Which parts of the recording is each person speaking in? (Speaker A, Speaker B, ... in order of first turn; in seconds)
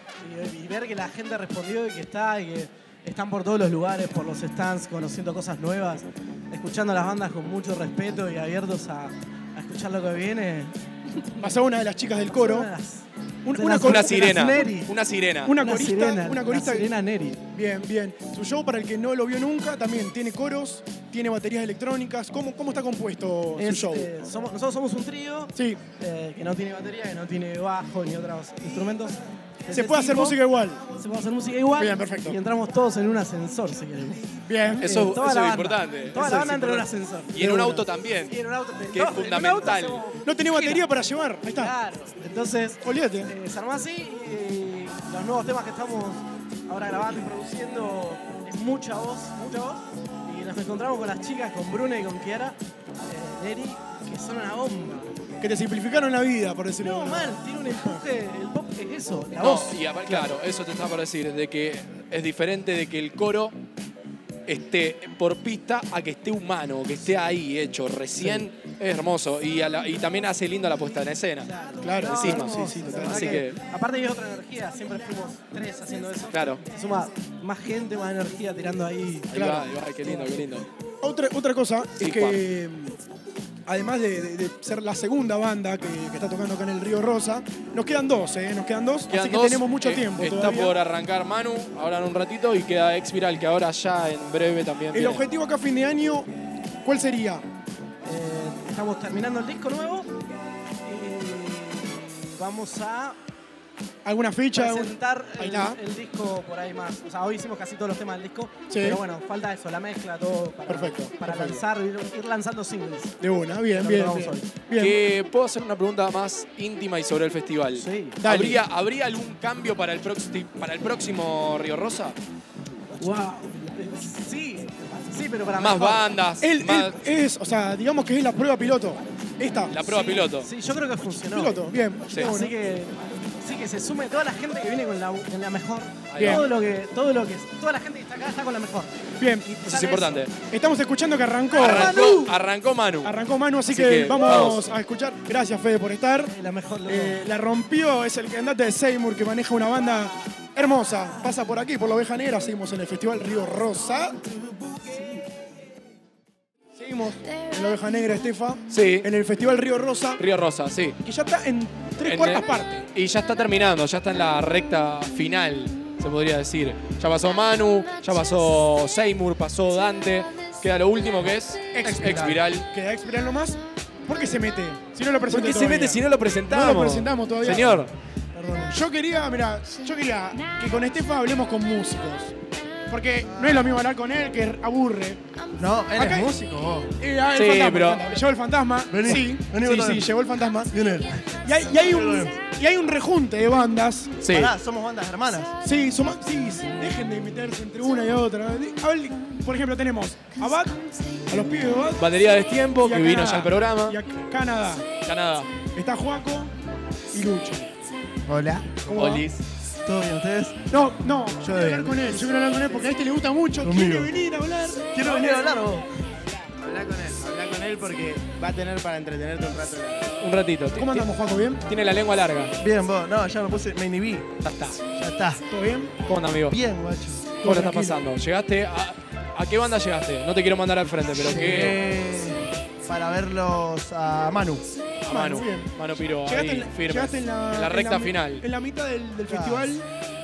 Speaker A: 0.2-11.5, 12.2-14.9, 15.5-17.4, 23.6-30.4, 30.9-37.3, 38.3-40.9, 41.5-55.1, 56.8-59.8, 71.5-79.5, 80.0-80.5, 98.0-100.2, 100.8-103.2, 104.5-113.2, 113.7-114.5, 117.8-118.2, 123.0-126.1, 129.8-140.2, 141.5-142.3, 146.3-147.2
Speaker B: 11.4-12.7, 13.4-14.7, 15.4-16.9, 17.5-24.1, 25.5-25.8, 29.7-30.8, 31.8-32.4, 34.5-34.9, 36.1-36.8, 37.4-37.9, 40.2-41.7, 42.8-43.3, 55.4-58.0, 71.8-73.5, 79.3-79.7, 81.0-83.0, 83.7-90.7, 94.9-96.3, 96.8-97.4, 104.0-105.8, 108.7-109.0, 110.7-111.6, 113.2-115.0, 118.2-118.6, 126.4-129.7, 131.3-132.5, 136.2-136.4, 139.2-139.5, 140.5-142.2, 143.0-146.3, 146.8-154.2, 156.8-160.2, 161.0-162.8, 171.8-177.8, 178.6-182.3, 182.9-185.2, 185.9-186.3, 187.0-190.7, 191.4-194.2, 195.6-202.0, 202.8-204.8, 205.7-206.5, 207.1-207.7, 208.8-209.3, 210.7-215.6, 220.8-221.6, 225.5-225.9, 227.4-228.0, 235.1-235.7, 236.2-239.8
Speaker C: 13.8-15.5, 34.8-36.8, 37.3-38.4, 38.9-40.0, 59.4-63.6, 64.5-71.5, 72.0-73.6, 76.3-76.6, 79.3-80.7, 82.0-82.4, 89.1-95.2, 114.7-122.2, 125.6-127.0, 129.7-130.5, 136.1-136.4, 139.6-140.3, 141.6-143.2, 143.7-144.7, 158.7-159.1, 160.2-161.0, 162.0-172.7, 175.3-177.9, 187.3-188.2, 194.2-194.5, 202.0-204.0, 205.0-205.5, 208.9-209.3, 220.2-221.1, 221.7-222.5, 224.4-224.8, 226.1-226.6, 227.4-231.8, 235.0-238.4
Speaker D: 171.8-172.4, 178.3-178.7, 183.2-183.6, 185.6-186.9, 188.9-190.1, 190.7-191.2, 191.8-192.3, 194.3-195.5, 208.3-209.2, 209.8-210.6, 211.4-212.2, 213.6-214.1, 214.9-215.9, 222.6-224.3, 224.8-225.4, 226.4-227.4, 231.2-234.7, 239.3-239.6
Speaker E: 216.6-220.1